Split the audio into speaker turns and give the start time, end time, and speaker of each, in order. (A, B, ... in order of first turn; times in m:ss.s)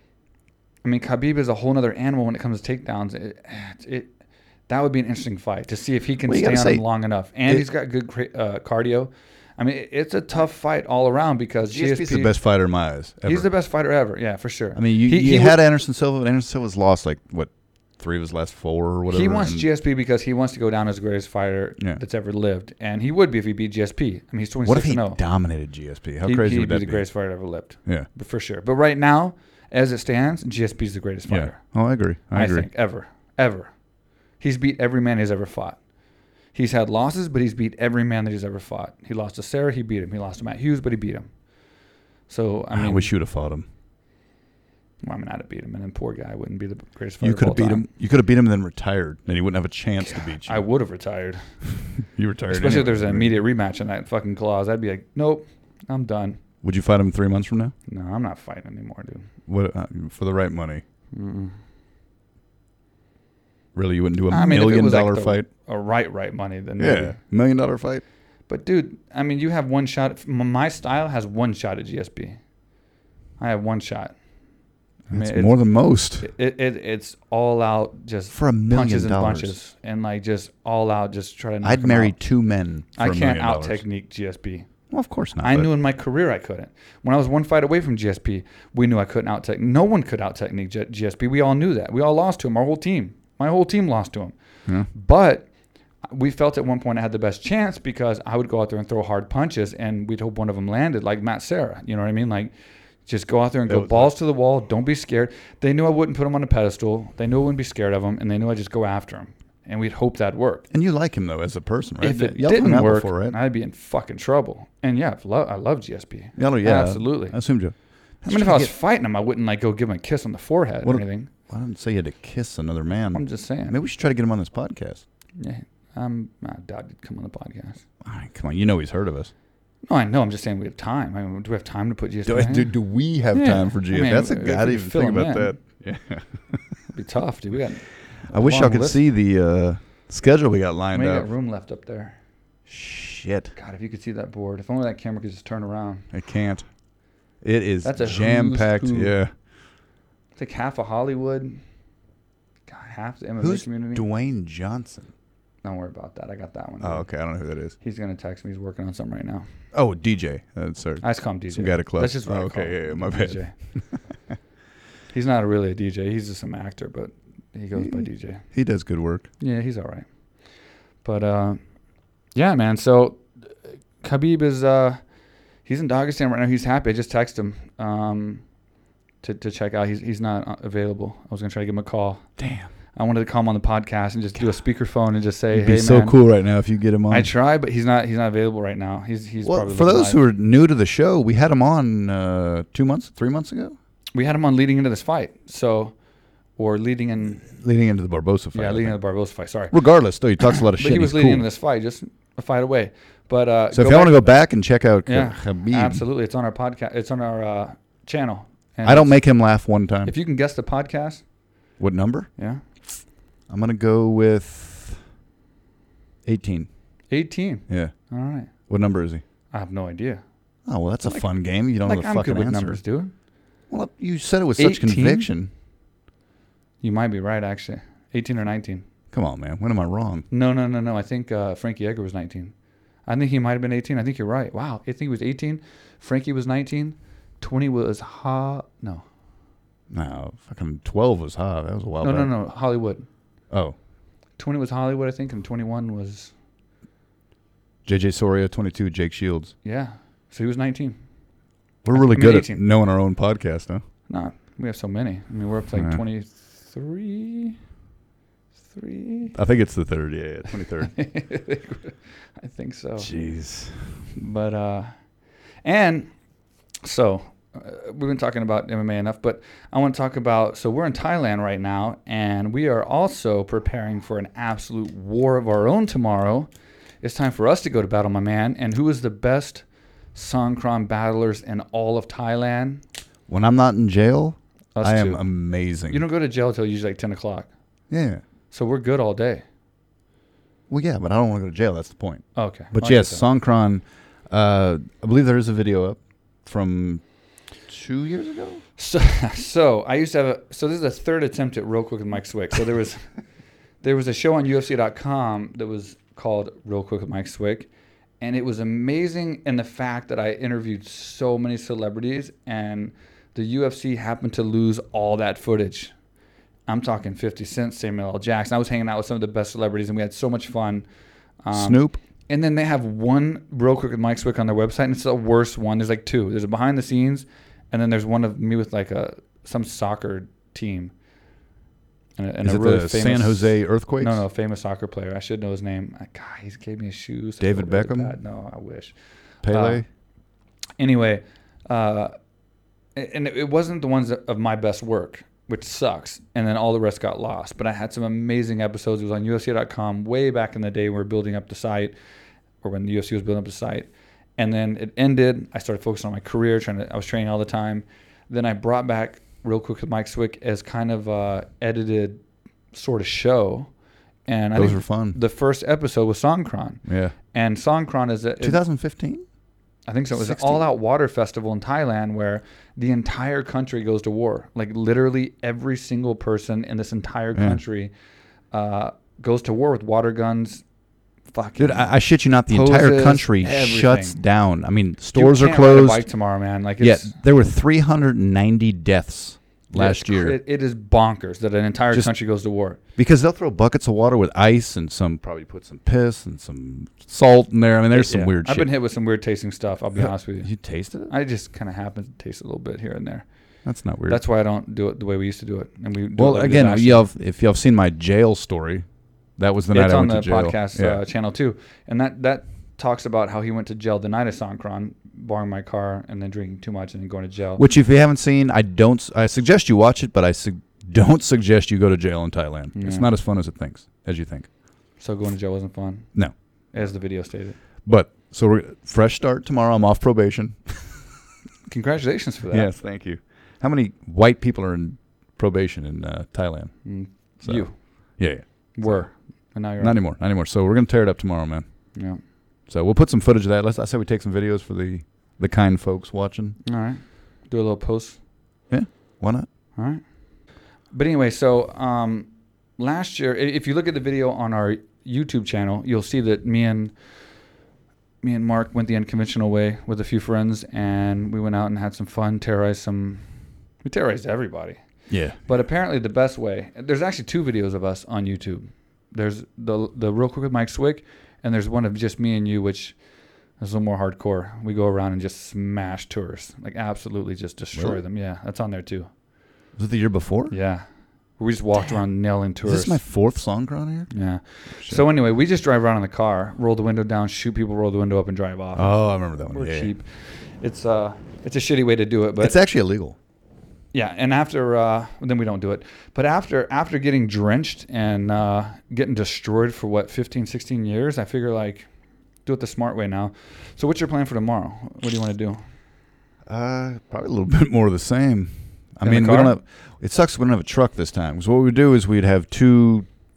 0:00.8-0:04.1 A
0:04.7-0:12.4 A
0:06.2-0:06.8 B
0:11.7-0:13.5 B
0:13.2-0:15.6 A
0:14.7-0:19.6 B
0:19.1-0:25.2 A
0:24.6-0:27.1 B
0:26.2-0:31.6 A
0:31.3-0:32.7 B
0:32.3-0:33.7 A
0:34.4-0:35.8 A
0:36.5-0:41.3 A
0:42.3-0:43.1 A
0:42.7-0:43.6 B
0:45.0-0:47.9 A
0:47.2-0:50.6 B
0:50.0-0:51.5 A
0:52.0-0:53.3 B
0:52.5-0:56.4 A
0:56.6-0:57.7 B
0:57.9-0:59.2 A
0:59.5-1:00.8 B
1:01.1-1:01.5 A
1:03.7-1:05.5 B
1:04.3-1:07.2 A
1:06.8-1:08.0 B
1:08.5-1:12.4 A
1:13.4-1:14.1 A
1:15.1-1:16.3 B
1:15.1-1:15.6 A
1:16.2-1:22.2 A
1:18.3-1:19.5 B
1:21.6-1:23.8 B
1:23.0-1:24.7 A
1:24.9-1:25.7 B
1:25.4-1:34.4 A
1:34.9-1:35.5 A
1:36.1-1:42.5 A
1:43.1-1:50.6 A
1:43.7-1:44.1 B
1:50.7-1:53.4 B
1:52.0-1:57.4 A
1:56.4-1:58.7 B
1:58.3-2:01.3 A
2:00.8-2:05.0 B
2:03.1-2:03.8 A
2:05.4-2:07.8 A
2:08.0-2:09.3 B
2:09.9-2:12.7 A
2:12.2-2:16.6 B
2:13.3-2:15.6 A
2:16.9-2:19.0 A
2:18.3-2:21.3 B
2:20.9-2:22.1 A
2:22.7-2:23.5 B
2:23.6-2:26.0 A
2:26.1-2:26.6 B
2:27.4-2:29.3 B
2:27.8-2:29.1 A
2:30.4-2:31.6 A
2:32.7-2:34.0 A
2:33.4-2:35.1 B
2:35.6-2:37.1 A
2:36.8-2:37.7 B
2:37.8-2:39.4 A
2:39.7-2:43.4 B
2:41.0-2:43.5 A
2:45.1-2:48.4 A
2:47.8-2:49.3 B
2:49.4-2:50.1 A
2:51.0-2:51.6 A
2:52.3-2:53.2 A
2:54.0-2:55.0 A
2:55.6-2:58.4 A
2:59.2-3:02.2 A
3:02.4-3:02.7 B
3:02.9-3:06.2 A
3:05.5-3:07.3 B
3:07.1-3:10.2 A
3:09.4-3:13.8 B
3:14.1-3:16.0 A
3:16.6-3:17.5 A
3:17.4-3:19.0 B
3:18.5-3:19.7 A
3:19.7-3:21.4 B
3:20.4-3:24.3 A
3:23.7-3:26.0 B
3:25.1-3:29.2 A
3:28.8-3:30.1 B
3:30.0-3:31.2 A
3:31.8-3:32.3 B
3:32.4-3:32.6 A
3:33.5-3:35.0 B
3:36.2-3:36.7 B
3:37.1-3:38.5 A
3:37.7-3:37.9 B
3:38.7-3:39.2 B
3:39.5-3:40.2 A
3:40.6-3:42.8 B
3:41.8-3:43.1 A
3:43.7-3:45.5 B
3:44.6-3:45.3 A
3:46.8-3:48.8 A
3:49.1-3:50.3 B
3:50.3-3:52.5 A
3:53.1-3:59.0 A
3:59.9-4:02.3 B
4:02.0-4:03.1 A
4:03.5-4:03.8 B
4:04.4-4:06.3 A
4:07.8-4:09.5 B
4:09.6-4:11.0 A
4:11.8-4:13.8 B
4:11.9-4:12.6 A
4:14.1-4:17.6 A
4:15.8-4:16.0 B
4:18.7-4:19.4 A
4:19.3-4:20.9 B
4:20.7-4:23.1 A
4:23.0-4:24.0 B
4:24.2-4:24.9 A
4:25.6-4:26.1 A
4:26.8-4:36.5 A
4:37.0-4:42.8 A
4:43.3-4:46.0 B
4:44.7-4:45.2 A
4:45.9-4:47.5 A
4:47.9-4:48.2 B
4:48.5-4:49.4 A
4:50.7-4:57.0 B
4:52.4-4:53.2 A
4:57.7-4:58.6 B
4:58.8-5:03.1 A
5:03.8-5:07.7 A
5:08.2-5:15.9 A
5:16.7-5:20.9 A
5:21.4-5:30.9 A
5:21.5-5:22.0 B
5:32.2-5:38.9 A
5:32.4-5:34.2 B
5:37.4-5:38.1 B
5:39.4-5:39.8 B
5:39.5-5:39.8 A
5:40.8-5:42.1 A
5:42.9-5:51.9 A
5:52.6-6:03.7 A
6:04.3-6:08.6 A
6:04.6-6:05.2 B
6:06.8-6:07.2 B
6:08.4-6:09.2 B
6:09.9-6:17.9 A
6:10.1-6:10.7 B
6:17.4-6:17.6 B
6:18.5-6:20.6 A
6:21.3-6:21.9 A
6:21.6-6:26.1 B
6:22.5-6:24.2 A
6:25.1-6:27.2 A
6:26.8-6:30.4 B
6:29.7-6:32.8 A
6:33.0-6:38.7 B
6:37.9-6:40.5 A
6:40.0-6:41.1 B
6:41.1-6:43.2 A
6:43.6-6:44.2 B
6:44.1-6:47.0 A
6:46.2-6:48.9 B
6:49.4-6:51.0 B
6:49.7-6:57.6 A
6:57.6-7:04.5 B
7:02.7-7:03.1 A
7:05.0-7:06.1 A
7:06.7-7:07.6 A
7:07.8-7:11.1 B
7:11.7-7:12.7 A
7:12.5-7:16.9 B
7:16.8-7:18.2 A
7:17.4-7:19.1 B
7:18.7-7:20.0 A
7:19.8-7:21.6 B
7:21.9-7:22.2 A
7:22.7-7:26.6 B
7:26.6-7:28.2 A
7:28.7-7:29.5 B
7:29.8-7:30.0 A
7:30.9-7:36.9 A
7:38.2-7:43.2 A
7:43.8-7:44.8 A
7:45.1-7:45.4 B
7:45.4-7:53.0 A
7:53.6-7:59.1 A
7:57.7-7:58.0 B
7:59.8-8:00.6 B
8:00.5-8:00.8 A
8:01.4-8:03.0 A
8:02.6-8:04.1 B
8:04.1-8:08.9 A
8:04.8-8:05.0 B
8:08.7-8:09.9 B
8:09.5-8:12.6 A
8:12.4-8:13.2 B
8:13.9-8:21.9 A
8:22.4-8:25.6 A
8:26.4-8:33.1 B
8:29.0-8:29.6 A